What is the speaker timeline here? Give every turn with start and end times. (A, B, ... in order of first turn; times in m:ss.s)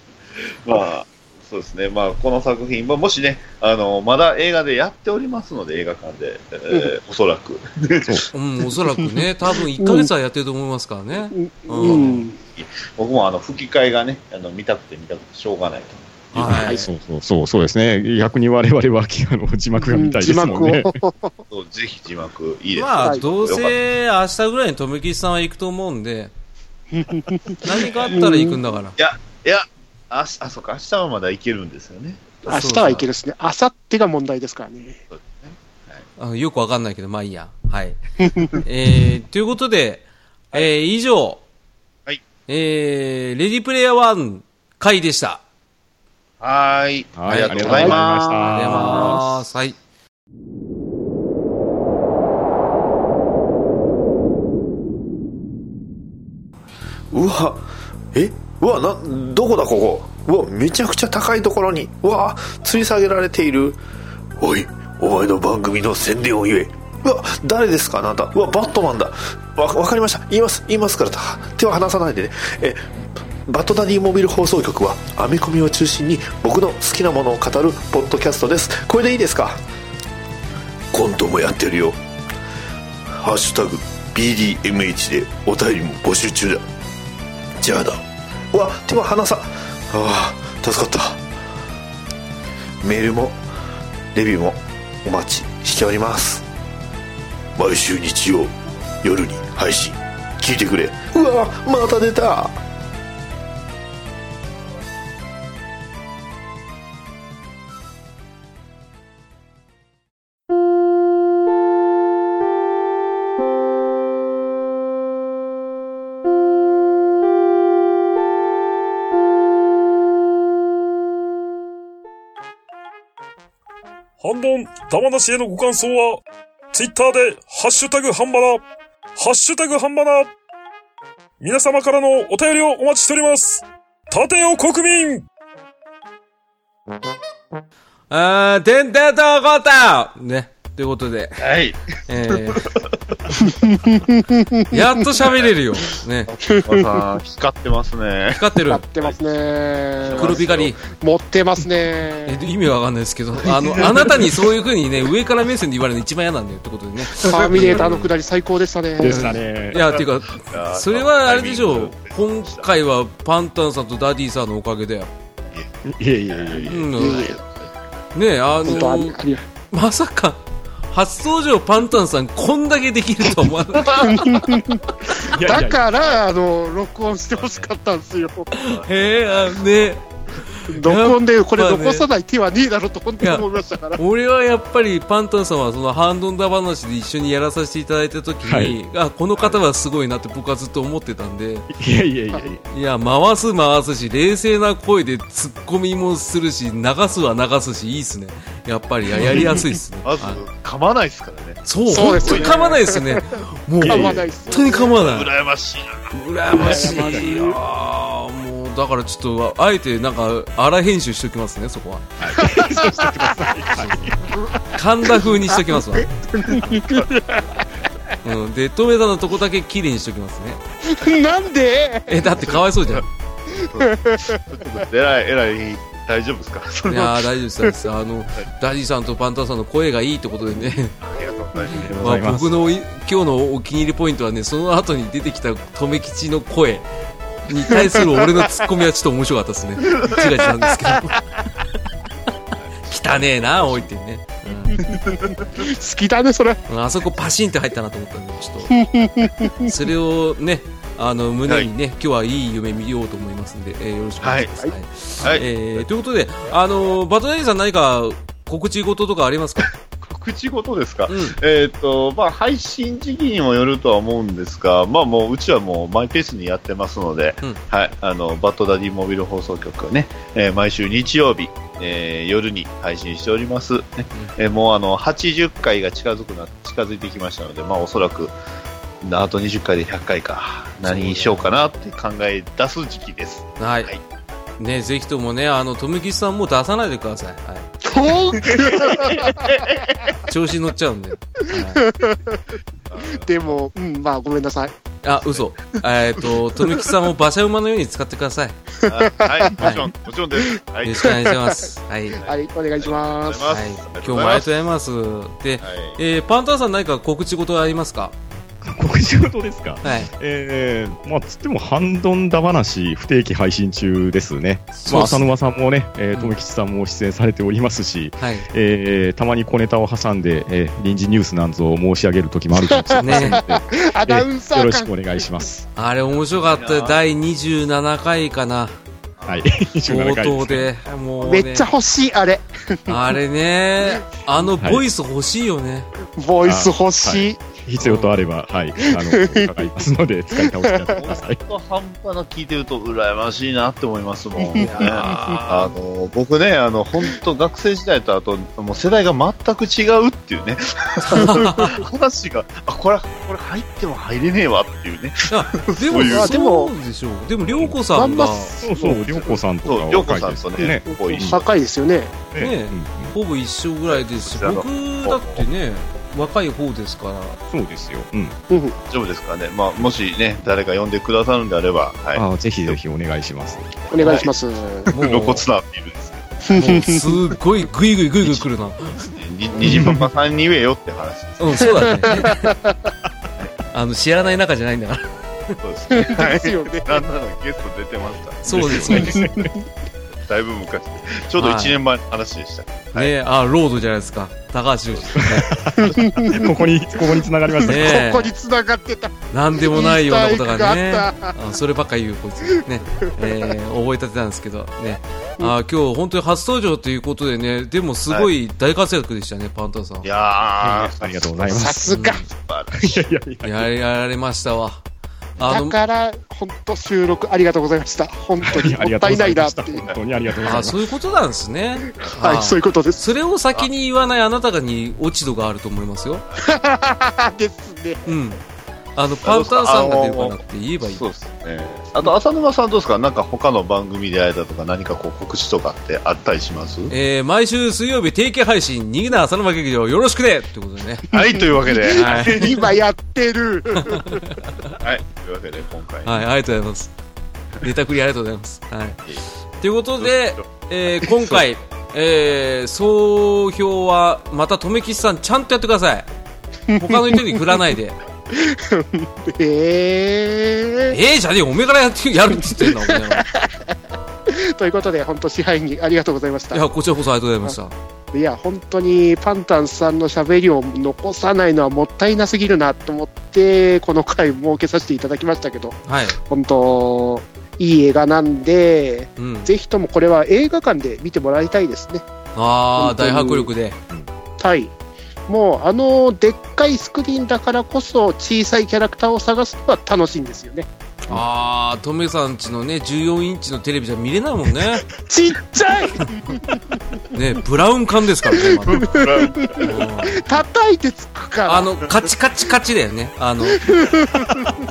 0:00.6-0:08.3 A
0:08.3-0:12.2 B
0:09.8-0:10.1 C
0:11.3-0:12.4 C
0:11.9-0:16.6 A
0:16.3-0:16.8 B
0:16.4-0:20.9 D
0:19.8-0:21.4 C
0:21.5-0:23.8 A
0:22.7-0:26.3 B
0:23.0-0:23.2 C
0:26.9-0:28.6 C
0:27.6-0:29.0 B
0:27.8-0:28.2 A
0:29.0-0:32.3 A
0:32.4-0:35.0 C
0:32.5-0:33.0 B
0:35.1-0:36.0 A
0:36.2-0:38.0 B
0:38.2-0:38.5 C
0:38.6-0:41.4 B
0:42.5-0:45.4 B
0:46.4-0:49.1 A
0:47.2-0:49.4 D
0:47.3-0:48.0 B
0:47.6-0:47.9 C
0:48.5-0:49.8 B
0:57.1-1:03.8 E
1:04.4-1:12.9 E
1:13.4-1:19.6 E
1:20.9-1:22.0 E
1:23.1-1:26.7 E
1:27.6-1:31.2 E
1:32.8-1:33.4 E
1:34.1-1:36.4 E
1:37.6-1:42.6 E
2:04.2-2:06.2 F
2:06.7-2:08.6 F
2:09.2-2:10.3 F
2:11.4-2:15.2 F
2:18.1-2:21.4 B
2:21.4-2:21.8 A
2:22.1-2:22.7 B
2:22.5-2:23.2 A
2:23.5-2:24.8 C
2:24.7-2:26.3 B
2:25.2-2:25.5 A
2:26.3-2:29.2 A
2:26.5-2:26.8 C
2:28.3-2:28.8 B
2:28.6-2:32.4 C
2:30.0-2:30.8 A
2:30.1-2:30.8 B
2:32.3-2:38.1 B
2:33.7-2:34.4 A
2:37.2-2:39.3 C
2:39.0-2:39.8 D
2:39.3-2:42.7 A
2:39.7-2:45.1 B
2:45.8-2:46.9 D
2:46.3-2:47.7 A
2:46.7-2:47.3 B
2:46.9-2:47.4 C
2:48.1-2:49.2 B
2:48.6-2:49.4 C
2:49.7-2:50.4 B
2:50.9-2:54.4 B
2:53.9-2:58.5 C
2:55.3-2:55.8 D
2:57.3-2:57.7 A
2:58.5-3:02.0 B
2:58.5-2:59.9 A
3:00.7-3:04.0 C
3:04.0-3:11.7 B
3:08.4-3:08.8 D
3:11.7-3:12.6 D
3:12.7-3:20.4 B
3:19.2-3:19.6 D
3:20.0-3:22.5 A
3:21.6-3:25.3 B
3:21.9-3:24.9 C
3:23.8-3:24.3 D
3:24.5-3:26.1 A
3:26.1-3:32.0 B
3:26.6-3:27.5 C
3:26.6-3:27.1 A
3:32.2-3:34.2 D
3:32.4-3:33.4 C
3:34.3-3:37.6 C
3:34.7-3:36.1 B
3:38.2-3:40.6 B
3:40.8-3:42.3 C
3:42.1-3:43.1 B
3:42.9-3:47.2 A
3:43.7-3:44.4 C
3:46.9-3:50.9 B
3:51.0-3:52.4 A
3:51.7-3:52.5 D
3:51.7-3:56.8 B
3:57.4-4:01.2 B
3:57.7-3:58.2 C
3:59.9-4:00.2 A
4:02.6-4:03.9 A
4:02.9-4:04.8 B
4:04.7-4:06.6 C
4:04.8-4:05.6 A
4:06.7-4:08.7 B
4:08.7-4:09.7 C
4:09.6-4:19.7 B
4:14.2-4:14.5 A
4:15.2-4:15.8 A
4:20.0-4:38.3 A
4:21.1-4:21.4 B
4:39.0-4:44.0 A
4:40.8-4:41.5 B
4:43.6-4:43.9 B
4:44.6-4:47.7 B
4:47.8-4:49.6 C
4:48.4-4:50.2 A
4:50.3-4:51.8 B
4:51.5-4:52.4 C
4:52.9-4:53.6 A
4:53.1-4:54.7 C
4:55.0-4:58.6 B
4:58.8-4:59.5 C
4:58.9-5:01.1 A
4:59.6-4:59.9 B
5:00.8-5:02.2 B
5:02.1-5:04.5 A
5:02.2-5:03.5 C
5:03.5-5:08.1 B
5:05.6-5:06.0 A
5:08.6-5:25.6 D
5:09.8-5:10.1 B
5:14.7-5:15.3 B
5:18.2-5:18.5 B
5:22.6-5:24.9 C
5:23.0-5:23.4 B
5:25.8-5:28.7 B
5:26.0-5:27.0 A
5:29.2-5:29.5 A
5:29.2-5:30.7 D
5:29.9-5:31.7 B
5:31.2-5:33.1 C
5:32.9-5:35.9 B
5:36.2-5:37.4 C
5:36.4-5:41.4 D
5:37.8-5:38.2 B
5:38.8-5:39.6 C
5:40.3-5:40.9 C
5:40.9-5:56.3 A
5:44.4-5:45.4 C
5:44.6-5:45.7 B
5:51.0-5:51.8 B
5:51.1-5:51.5 C
5:55.3-5:58.5 B
5:56.0-5:56.7 C
5:57.9-5:59.0 C
5:58.6-6:01.4 D
5:59.2-6:01.6 A
6:00.6-6:02.1 C
6:02.3-6:03.1 D
6:02.4-6:07.4 B
6:03.9-6:05.4 A
6:07.5-6:08.4 D
6:08.5-6:08.8 C
6:08.9-6:12.8 A
6:12.1-6:14.2 D
6:13.7-6:14.3 A
6:13.9-6:14.9 C
6:14.9-6:15.4 B
6:15.0-6:16.5 A
6:16.5-6:17.0 C
6:16.5-6:19.0 B
6:18.2-6:22.1 A
6:19.6-6:20.1 D
6:21.4-6:22.5 B
6:21.9-6:22.8 C
6:23.7-6:25.6 B
6:25.6-6:28.9 A
6:25.9-6:27.0 C
6:28.4-6:29.3 B
6:28.5-6:29.5 D
6:29.2-6:29.5 C
6:30.2-6:33.1 A
6:31.4-6:31.8 B
6:32.9-6:35.5 B
6:35.2-6:38.0 D
6:35.8-6:36.5 C
6:35.8-6:36.5 A
6:37.6-6:41.3 C
6:37.6-6:38.3 B
6:39.3-6:50.1 B
6:43.0-6:43.3 C
6:50.0-6:53.0 A
6:50.6-6:51.8 D
6:51.5-6:52.2 C
6:51.9-6:52.2 B
6:52.8-6:53.7 D
6:53.4-6:54.8 B
6:55.4-6:55.7 B
6:55.4-6:59.8 C
6:58.4-7:00.8 D
7:00.4-7:06.2 B
7:02.0-7:03.1 C
7:06.4-7:08.1 C
7:08.0-7:08.4 B
7:09.0-7:11.0 B
7:09.2-7:16.9 A
7:16.9-7:21.2 B
7:21.1-7:22.7 A
7:21.2-7:24.2 C
7:21.9-7:22.5 B
7:23.9-7:24.5 B
7:24.8-7:26.2 A
7:26.0-7:26.9 B
7:27.6-7:29.0 B
7:29.6-7:36.1 B
7:30.0-7:30.5 A
7:31.0-7:31.4 A
7:36.7-7:37.2 C
7:36.7-7:38.0 B
7:38.3-7:41.0 C
7:40.9-7:43.2 B
7:42.4-7:43.7 C
7:44.3-7:46.6 C
7:46.5-7:47.7 B
7:48.1-8:02.0 C
7:55.9-7:56.2 B
7:59.2-7:59.5 B
8:02.3-8:03.8 B
8:02.8-8:03.5 C
8:04.4-8:04.7 C
8:05.3-8:10.7 C
8:11.1-8:14.8 B
8:15.1-8:16.8 C
8:17.1-8:19.0 B
8:18.7-8:19.7 A
8:18.7-8:21.7 C
8:19.6-8:20.2 B
8:21.4-8:23.6 B
8:23.6-8:24.5 C